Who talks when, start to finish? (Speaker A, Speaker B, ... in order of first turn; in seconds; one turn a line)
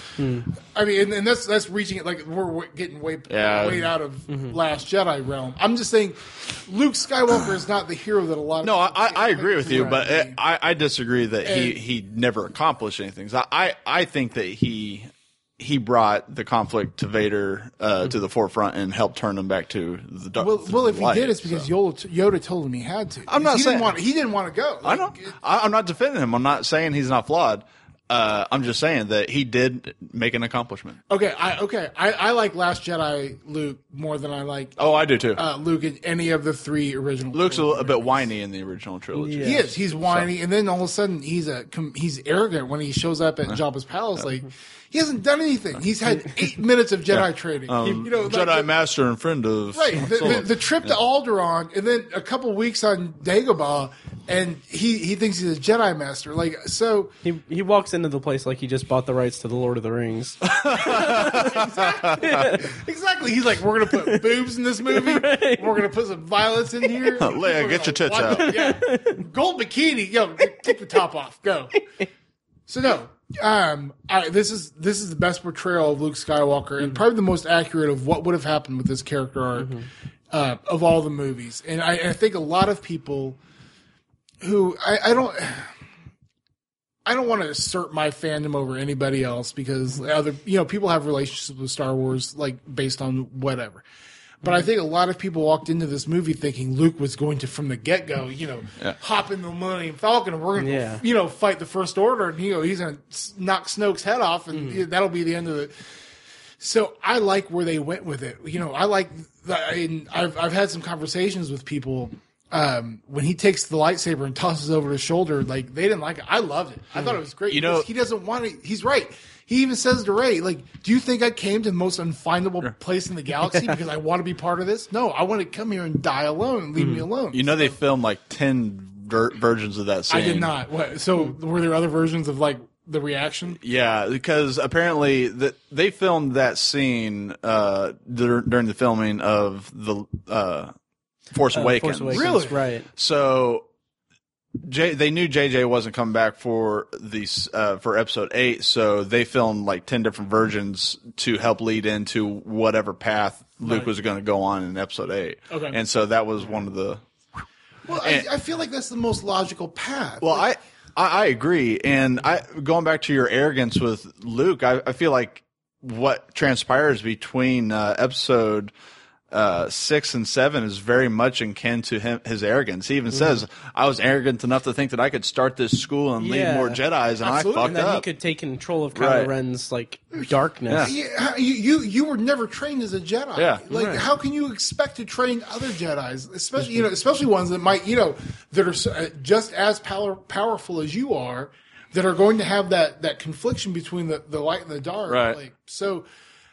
Speaker A: 0.2-0.5
Speaker B: 0.5-10.4
Speaker C: 3.3-3.9
Speaker A: 4.3-4.6
Speaker C: 8.6-21.7
Speaker B: 11.4-11.8
Speaker B: 20.4-25.4
Speaker C: 23.3-23.9
Speaker C: 24.8-31.0
Speaker B: 31.1-34.8
Speaker C: 34.8-35.4
Speaker B: 35.4-38.3
Speaker C: 37.3-40.3
Speaker A: 39.1-39.7
Speaker B: 39.4-48.7
Speaker C: 47.1-51.0
Speaker B: 49.7-57.1
Speaker A: 57.2-62.7
Speaker C: 60.5-62.5
Speaker B: 60.9-71.8
Speaker A: 64.0-64.2
Speaker A: 64.9-65.8
Speaker C: 67.2-68.5
Speaker A: 68.4-69.2
Speaker B: 72.7-79.8
Speaker A: 79.6-79.9
Speaker B: 80.3-83.4
Speaker B: 84.4-85.7
Speaker B: 87.1-93.8
Speaker B: 94.4-105.8
Speaker A: 100.6-101.0
Speaker A: 104.5-104.8
Speaker B: 106.6-127.8
Speaker C: 117.5-117.9
Speaker A: 126.8-127.0
Speaker C: 127.3-130.5
Speaker B: 130.1-133.6
Speaker C: 133.6-140.7
Speaker C: 141.3-143.7
Speaker A: 141.5-142.9
Speaker B: 142.1-142.6
Speaker C: 144.6-157.0
Speaker B: 155.5-155.8
Speaker B: 157.9-160.5
Speaker C: 158.0-158.3
Speaker C: 160.2-168.7
Speaker C: 169.3-178.1
Speaker A: 176.2-176.8
Speaker B: 177.2-177.8
Speaker A: 177.6-180.9
Speaker C: 178.9-179.3
Speaker B: 180.8-196.1
Speaker C: 183.3-183.6
Speaker A: 183.7-184.1
Speaker C: 195.1-195.4